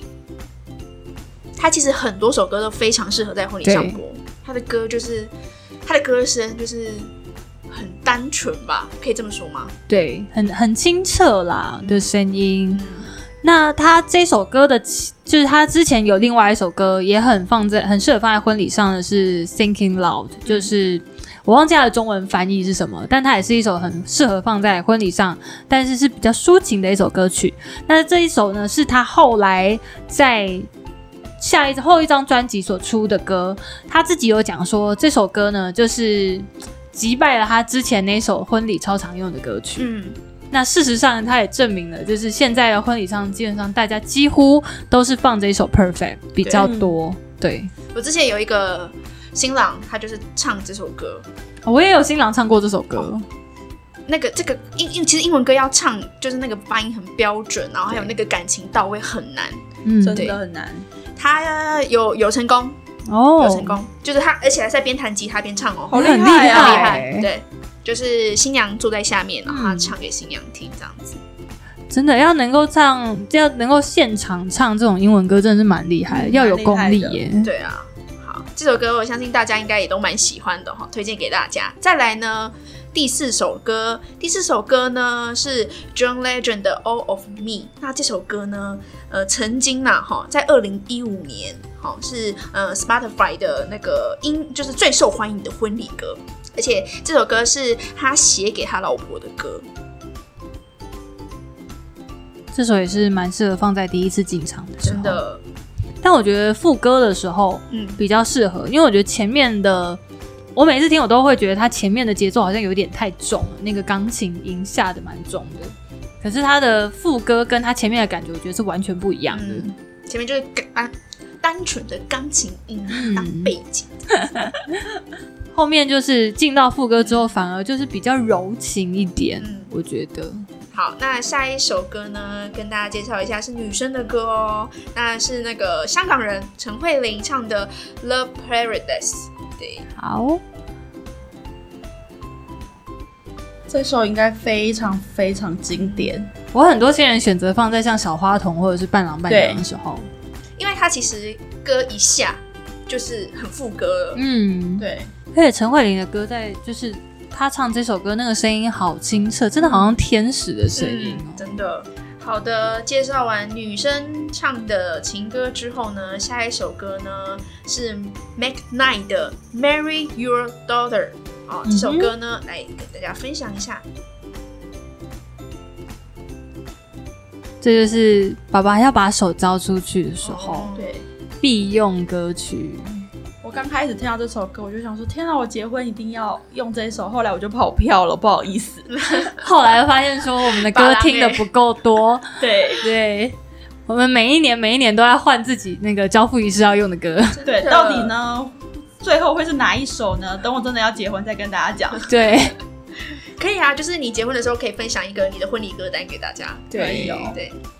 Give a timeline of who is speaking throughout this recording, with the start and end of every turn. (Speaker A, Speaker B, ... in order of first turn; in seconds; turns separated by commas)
Speaker A: 1.6-5.3, Speaker B: 3.6-4.0, Speaker A: 5.9-7.1, Speaker A: 7.7-9.7, Speaker B: 9.9-12.8, Speaker A: 11.8-12.1, Speaker A: 12.7-13.1, Speaker B: 13.4-30.7, Speaker B: 31.4-39.9, Speaker A: 39.8-40.2, Speaker B: 40.5-47.7, Speaker A: 46.4-46.7, Speaker C: 46.6-47.0, Speaker A: 47.9-51.3, Speaker B: 51.6-53.2, Speaker A: 54.1-59.6, Speaker B: 59.9-60.3, Speaker C: 60.0-60.9, Speaker A: 60.1-60.4, Speaker A: 61.2-62.8, Speaker B: 63.1-63.8, Speaker A: 63.4-71.2, Speaker C: 65.9-67.0, Speaker B: 65.9-67.3, Speaker B: 69.5-69.9, Speaker B: 71.9-77.5, Speaker C: 76.1-77.2, Speaker A: 77.4-99.7, Speaker B: 102.5-105.2, Speaker A: 104.8-105.4, Speaker B: 106.0-110.0, Speaker A: 107.7-108.0, Speaker B: 110.6-119.7, Speaker A: 119.3-124.1, Speaker B: 122.9-123.5, Speaker B: 125.5-130.4, Speaker A: 129.4-129.7, Speaker A: 130.7-139.8, Speaker B: 140.0-140.4, Speaker C: 143.7-146.3, Speaker B: 146.5-150.1, Speaker C: 149.3-149.6, Speaker A: 150.6-154.2, Speaker B: 154.2-161.4, Speaker C: 154.8-155.1, Speaker A: 159.6-159.9, Speaker A: 160.8-173.8, Speaker B: 171.7-172.1, Speaker B: 177.6-180.7, Speaker A: 180.2-180.9, Speaker C: 180.7-181.1, Speaker B: 181.4-182.9, Speaker C: 183.4-188.9, Speaker A: 188.9-189.3, Speaker B: 189.4-192.3, Speaker A: 190.6-191.5, Speaker C: 192.4-192.9, Speaker B: 192.8-193.4, Speaker B: 193.9-197.4, Speaker A: 197.4-198.1, Speaker C: 197.4-202.1, Speaker B: 202.1-202.6, Speaker A: 203.4-207.6, Speaker C: 206.7-207.4, Speaker B: 206.7-207.4